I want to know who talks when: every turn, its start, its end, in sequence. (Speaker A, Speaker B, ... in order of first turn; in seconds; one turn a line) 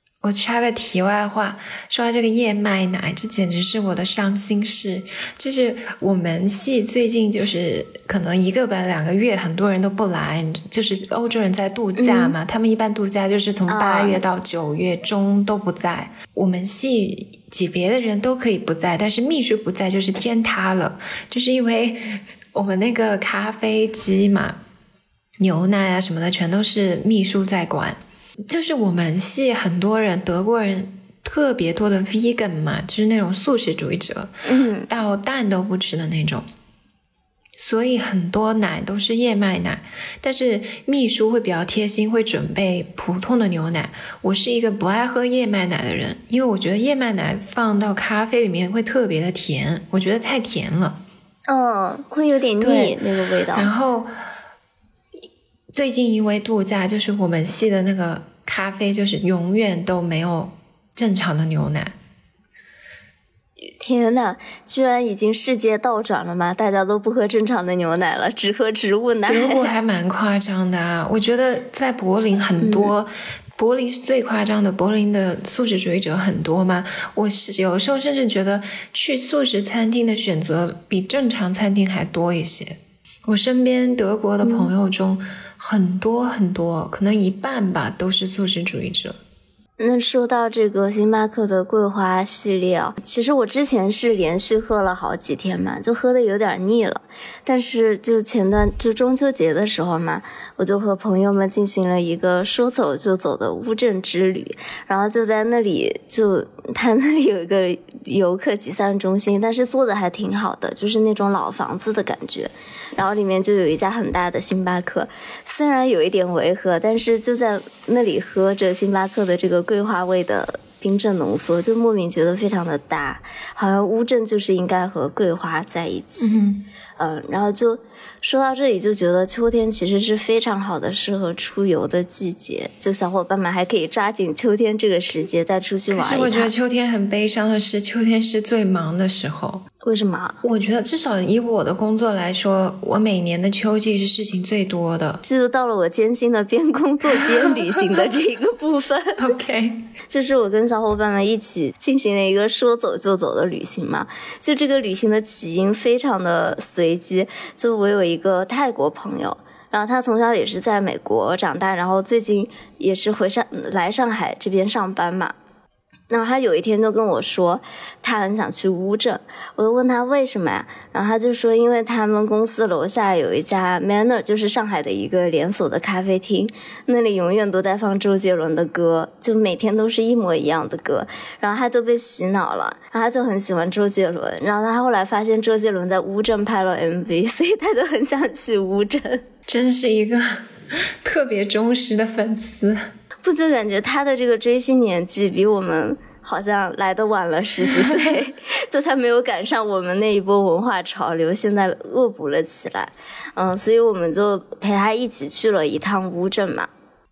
Speaker A: 0.2-24.6
Speaker B: 12.0-12.4
Speaker B: 13.7-14.2
Speaker A: 25.4-34.3
Speaker B: 34.5-34.9
Speaker A: 34.9-36.5
Speaker A: 37.6-51.0
Speaker B: 51.5-53.7
Speaker A: 52.6-53.0
Speaker A: 53.5-54.1
Speaker A: 55.7-62.0
Speaker B: 63.8-69.7
Speaker A: 69.3-89.2
Speaker B: 72.6-72.9
Speaker B: 84.4-84.7
Speaker B: 89.8-126.4
Speaker A: 126.2-126.7
Speaker B: 127.0-136.5
Speaker A: 135.9-139.7
Speaker B: 139.8-140.4
Speaker A: 140.4-145.2
Speaker B: 145.2-149.2
Speaker A: 149.2-149.9
Speaker B: 150.1-165.3
Speaker B: 166.1-189.2
Speaker A: 189.5-192.9
Speaker B: 193.2-206.7